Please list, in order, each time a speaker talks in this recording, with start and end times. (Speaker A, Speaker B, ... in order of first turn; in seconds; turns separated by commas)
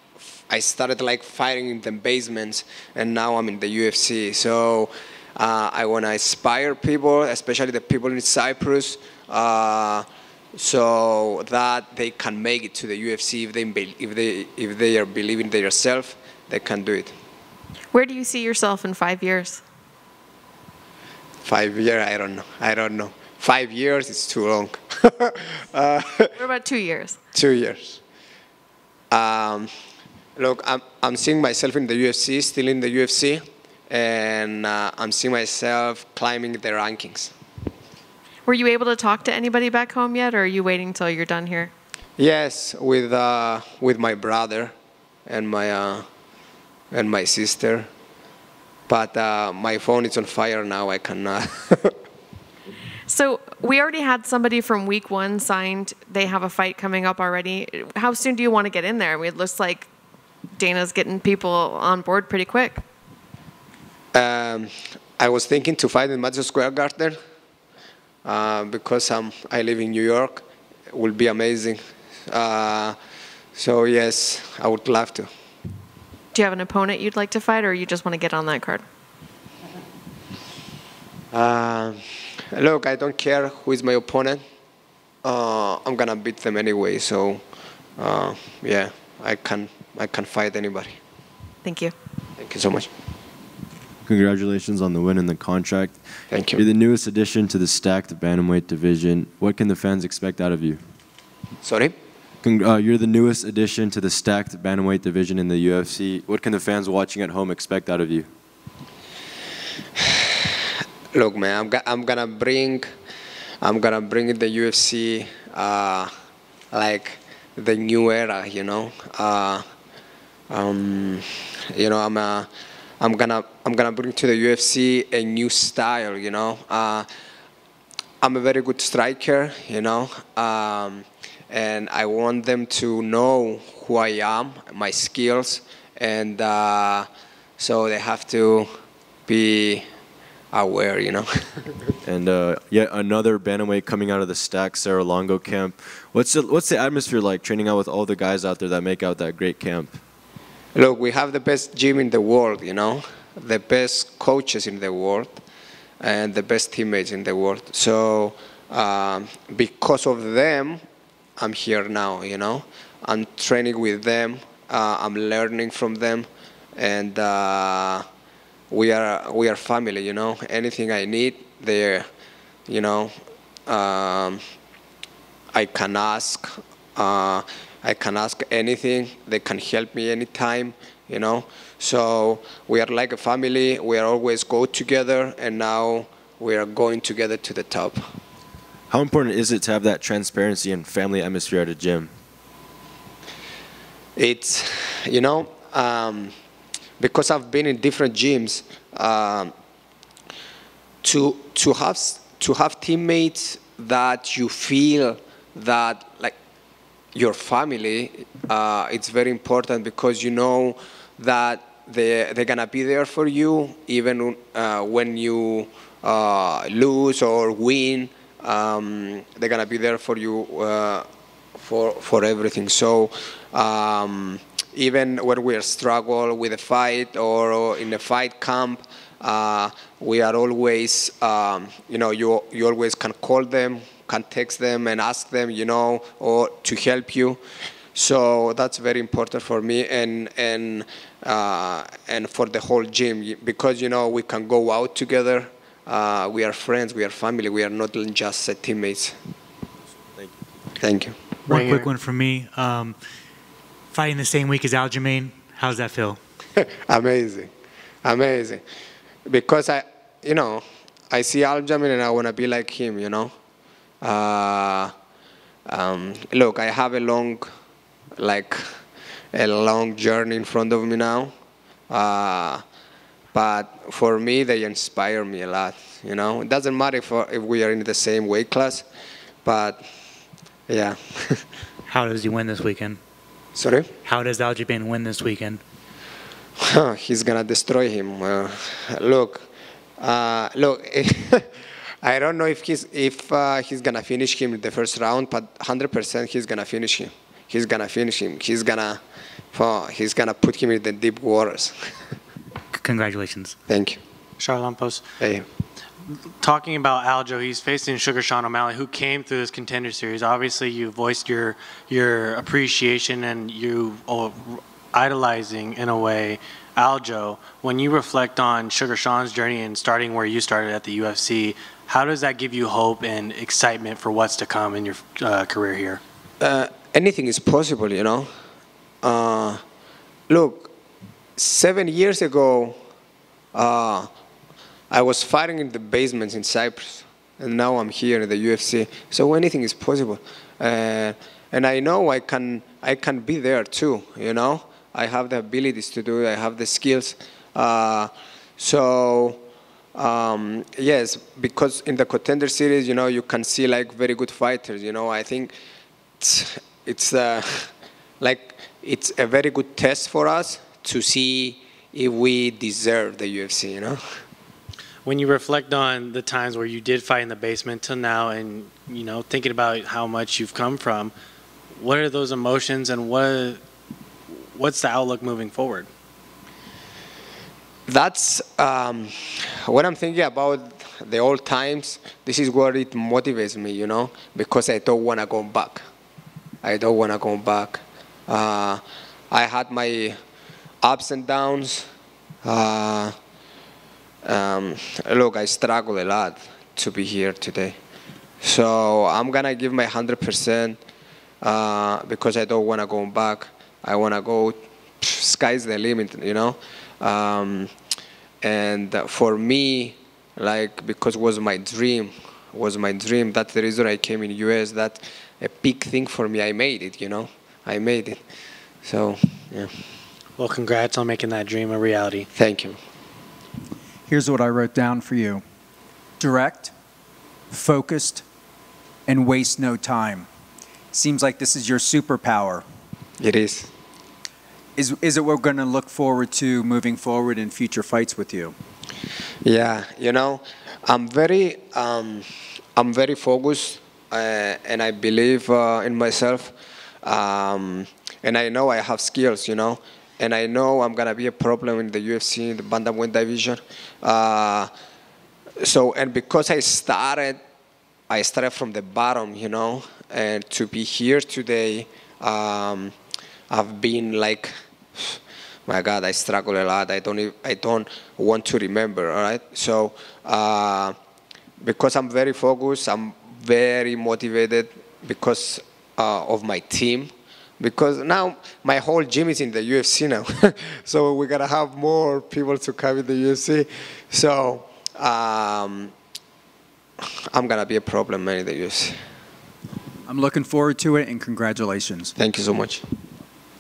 Speaker A: 0.2-17.1, Speaker B: 17.9-19.6, Speaker A: 21.4-26.3, Speaker B: 26.4-27.2, Speaker A: 27.3-28.0, Speaker A: 29.1-29.7, Speaker A: 30.4-37.3, Speaker B: 38.5-41.7, Speaker A: 42.2-44.7, Speaker A: 45.3-46.0, Speaker A: 46.9-47.9, Speaker A: 48.9-52.0, Speaker B: 53.1-59.9, Speaker B: 60.6-62.8, Speaker A: 64.1-67.2, Speaker A: 68.2-73.0, Speaker A: 73.5-75.3, Speaker B: 76.3-78.8, Speaker A: 81.3-82.0, Speaker A: 82.5-84.4, Speaker A: 85.2-87.4, Speaker A: 88.0-91.0, Speaker B: 91.6-91.9, Speaker A: 92.4-92.9, Speaker C: 94.0-100.8, Speaker A: 96.3-96.6, Speaker A: 101.6-101.9, Speaker C: 102.4-108.3, Speaker A: 111.1-112.9, Speaker A: 113.6-116.1, Speaker A: 116.7-119.6, Speaker A: 120.5-122.5, Speaker A: 123.0-127.1, Speaker A: 128.2-138.7, Speaker A: 139.3-139.8, Speaker A: 140.5-141.9, Speaker C: 142.0-150.0, Speaker A: 150.8-155.4, Speaker A: 156.0-160.8, Speaker A: 161.4-168.1, Speaker A: 168.7-172.1, Speaker A: 172.7-173.2, Speaker A: 173.7-174.4, Speaker A: 175.5-188.1, Speaker C: 188.9-192.1, Speaker A: 194.2-196.3, Speaker A: 197.0-199.5, Speaker A: 201.0-206.4, Speaker A: 207.2-221.1, Speaker A: 221.6-237.4, Speaker A: 237.9-249.2, Speaker A: 250.8-251.2, Speaker D: 251.5-253.0, Speaker E: 251.5-251.9, Speaker D: 253.9-256.2, Speaker A: 256.6-257.5, Speaker A: 258.1-258.6, Speaker A: 259.3-263.3, Speaker A: 264.0-264.9, Speaker A: 265.7-267.5, Speaker A: 268.2-268.7, Speaker A: 269.3-271.3, Speaker A: 271.9-272.6, Speaker A: 273.3-278.9, Speaker A: 279.4-279.8, Speaker A: 280.7-281.4, Speaker D: 281.9-283.0, Speaker A: 283.6-283.9, Speaker D: 284.1-285.6, Speaker A: 286.6-289.5, Speaker A: 290.0-291.5, Speaker A: 292.0-299.0, Speaker A: 299.5-301.8, Speaker D: 302.7-303.6, Speaker A: 303.7-304.0, Speaker E: 304.4-305.0, Speaker A: 305.2-305.5, Speaker E: 306.1-326.0, Speaker A: 326.4-328.3, Speaker A: 329.0-329.6, Speaker A: 330.3-330.7, Speaker A: 331.4-332.8, Speaker A: 333.5-334.1, Speaker A: 334.9-349.4, Speaker A: 349.9-355.5, Speaker A: 356.2-364.0, Speaker E: 365.1-371.1, Speaker E: 371.8-373.6, Speaker E: 374.5-375.9, Speaker A: 377.9-385.9, Speaker A: 386.6-390.2, Speaker A: 390.8-391.9, Speaker A: 392.4-393.1, Speaker A: 394.2-397.8, Speaker A: 398.4-400.8, Speaker A: 401.4-407.7, Speaker A: 408.4-418.2, Speaker A: 418.8-419.7, Speaker E: 420.4-422.3, Speaker A: 422.4-422.8, Speaker F: 424.1-425.4, Speaker F: 426.2-426.7, Speaker F: 427.5-428.2, Speaker F: 429.1-430.3, Speaker F: 430.9-432.6, Speaker A: 433.2-433.7, Speaker F: 434.8-438.6, Speaker A: 439.4-454.7, Speaker A: 455.6-457.4, Speaker A: 458.1-462.9, Speaker A: 463.5-470.9, Speaker A: 471.6-485.9, Speaker A: 487.3-489.0, Speaker F: 490.1-492.1, Speaker A: 492.2-492.8